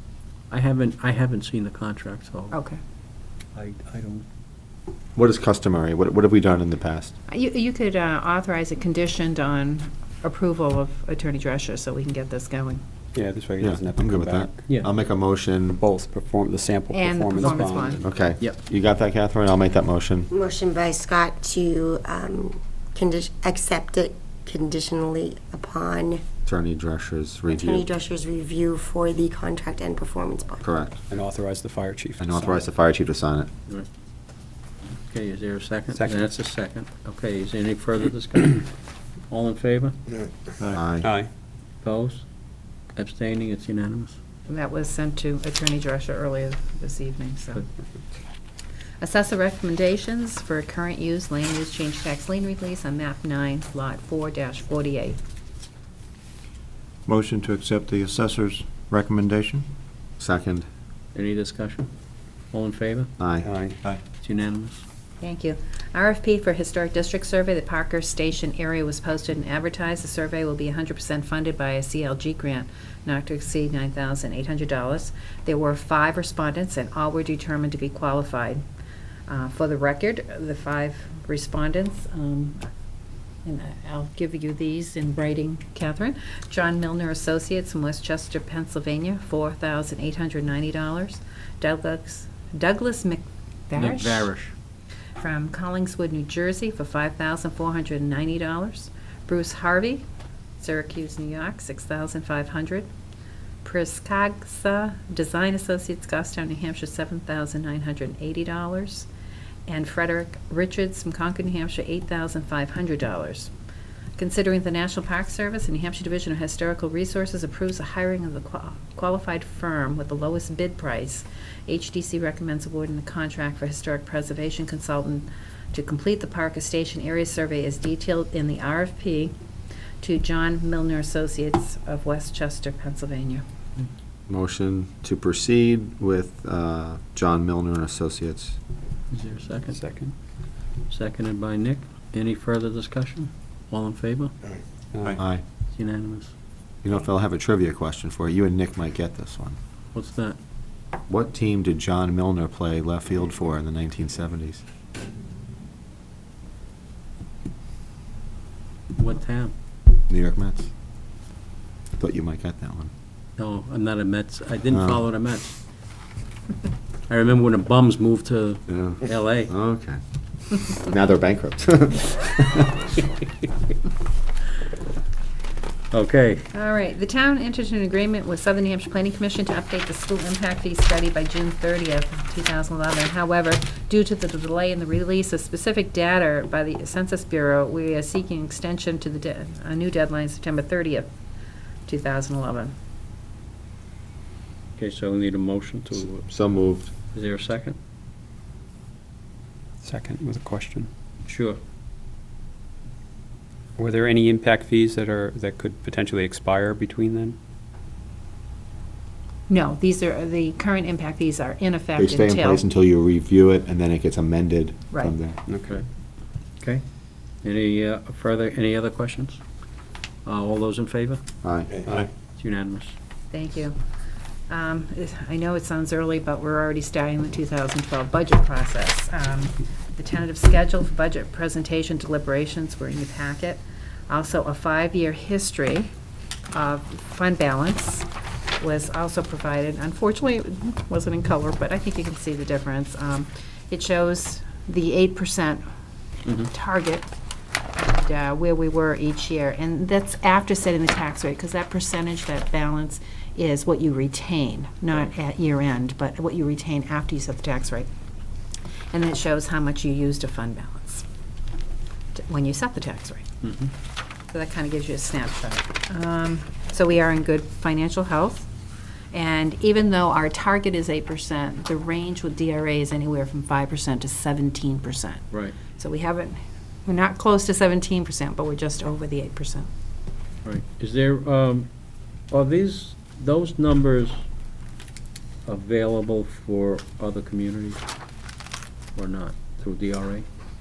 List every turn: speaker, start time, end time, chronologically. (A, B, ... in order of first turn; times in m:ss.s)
0:00.5-0:02.6 A
0:02.5-0:02.8 B
0:03.6-0:04.2 A
0:05.2-0:07.2 C
0:07.3-0:12.8 B
0:13.2-0:14.6 D
0:13.6-0:15.8 C
0:15.8-0:18.0 D
0:16.9-0:18.0 B
0:17.4-0:18.6 A
0:18.0-0:20.3 C
0:20.3-0:26.2 E
0:26.5-0:27.9 C
0:27.5-0:30.6 E
0:30.6-0:31.0 C
0:31.1-0:32.5 D
0:32.2-0:33.5 C
0:35.1-0:38.7 A
0:35.9-0:36.3 D
0:39.3-0:40.0 A
0:40.7-0:41.1 C
0:41.0-0:41.3 D
0:41.8-0:42.2 A
0:43.0-0:44.2 A
0:44.5-0:47.7 B
0:49.0-0:55.2 B
0:57.1-0:59.6 F
1:00.2-1:00.7 C
1:01.1-1:01.9 A
1:02.5-1:03.1 A
1:03.2-1:03.6 C
1:03.4-1:03.8 D
1:04.2-1:04.8 A
1:05.2-1:18.6 B
1:19.3-1:22.6 B
1:23.4-1:34.3 B
1:33.8-1:34.5 A
1:35.2-1:40.0 B
1:40.6-1:42.9 B
1:43.6-1:49.1 B
1:49.7-1:53.5 B
1:54.2-2:09.4 B
2:10.0-2:13.4 B
2:14.3-2:18.6 C
2:19.1-2:19.8 A
2:19.7-2:20.1 D
2:20.9-2:24.4 A
2:24.9-2:25.2 D
2:25.2-2:25.4 C
2:25.7-2:26.3 A
2:26.8-2:29.6 C
2:29.9-2:30.4 A
2:31.1-2:34.6 C
2:39.0-2:39.5 A
2:40.1-2:40.7 C
2:42.0-2:42.9 C
2:43.4-2:45.6 A
2:44.7-2:45.0 C
2:47.1-2:49.5 A
2:48.7-2:52.9 C
2:55.9-2:56.5 A
2:56.5-3:11.1 B
3:11.9-3:12.8 B
3:14.8-3:16.3 A
3:16.2-3:16.9 C
3:17.1-3:17.8 A
3:19.8-3:20.9 D
3:21.3-3:21.6 A
3:23.8-3:27.4 D
3:29.5-3:32.6 B
3:32.0-3:35.4 C
3:35.5-3:35.8 D
3:37.4-3:39.4 A
3:40.2-3:41.2 A
3:41.4-3:41.8 C
3:41.8-3:43.0 A
3:43.3-3:43.8 B
3:44.5-3:55.9 B
3:56.5-3:58.1 B
3:58.6-4:05.6 B
4:06.4-4:07.1 B
4:07.8-4:17.9 B
4:18.9-4:21.0 B
4:22.2-4:23.3 B
4:23.4-4:23.7 A
4:24.3-4:28.5 B
4:29.1-4:35.2 B
4:35.8-4:39.7 B
4:40.4-4:41.7 A
4:42.3-4:44.2 A
4:45.5-4:47.8 A
4:49.0-4:50.3 A